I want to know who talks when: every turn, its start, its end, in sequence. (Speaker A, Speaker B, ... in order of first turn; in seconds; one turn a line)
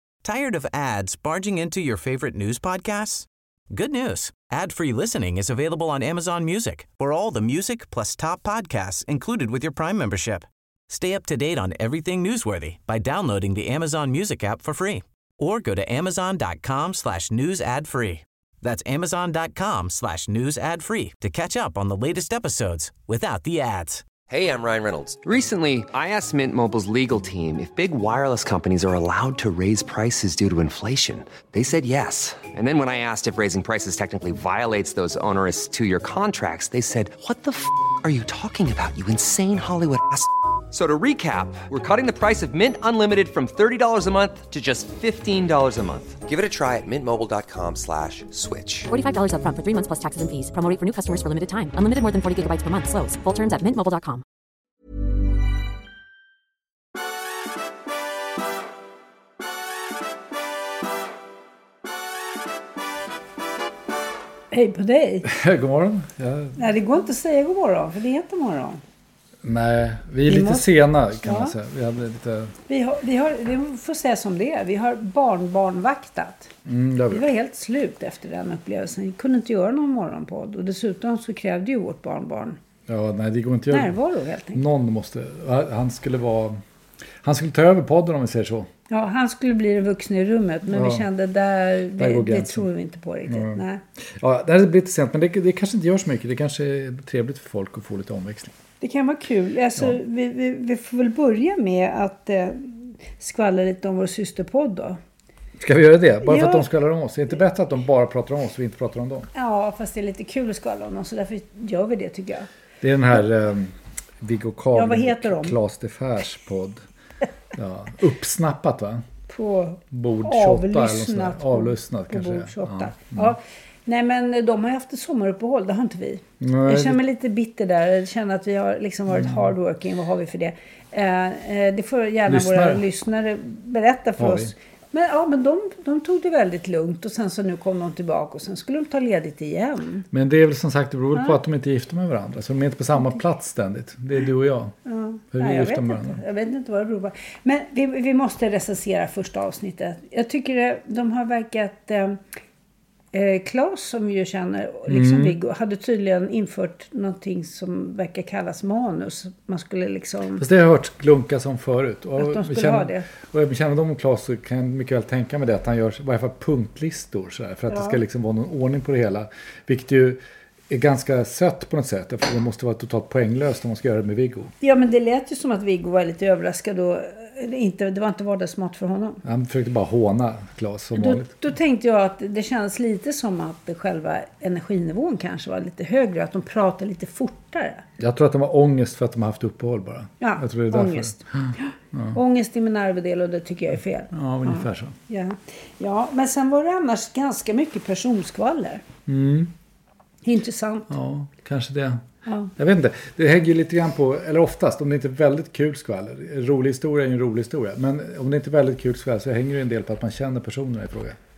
Speaker A: 0.2-24.0
Speaker B: 24.3-48.9
Speaker C: 48.9-54.2
Speaker D: 64.5-65.3
Speaker E: 65.2-66.6
Speaker D: 66.6-68.8
Speaker E: 69.4-72.6
Speaker D: 70.3-70.7
Speaker D: 71.2-71.5
Speaker D: 72.7-76.5
Speaker E: 76.7-77.3
Speaker D: 77.1-82.6
Speaker E: 82.9-84.0
Speaker D: 83.7-84.6
Speaker E: 84.5-86.6
Speaker E: 87.2-88.7
Speaker D: 88.9-93.8
Speaker E: 90.7-91.1
Speaker E: 92.0-92.7
Speaker E: 93.3-98.5
Speaker D: 98.8-105.0
Speaker E: 105.6-109.3
Speaker D: 106.2-106.7
Speaker D: 109.3-112.5
Speaker E: 112.8-116.8
Speaker D: 114.7-115.6
Speaker E: 117.5-119.0
Speaker D: 119.3-140.1
Speaker E: 119.9-123.3
Speaker E: 126.4-127.0
Speaker E: 129.1-129.4
Speaker E: 132.3-132.8
Speaker E: 134.2-134.5
Speaker E: 140.1-144.8
Speaker D: 144.8-152.2
Speaker E: 145.3-146.2
Speaker D: 153.1-160.4
Speaker E: 154.9-155.4
Speaker E: 160.4-174.5
Speaker D: 162.2-163.1
Speaker D: 167.7-168.0
Speaker D: 174.6-179.2
Speaker E: 179.2-181.4
Speaker D: 181.0-187.9
Speaker E: 188.0-192.2
Speaker D: 190.2-198.8
Speaker E: 194.1-195.0
Speaker E: 199.1-199.5
Speaker D: 200.2-200.9
Speaker E: 200.9-202.0
Speaker D: 202.3-202.5
Speaker E: 202.6-211.2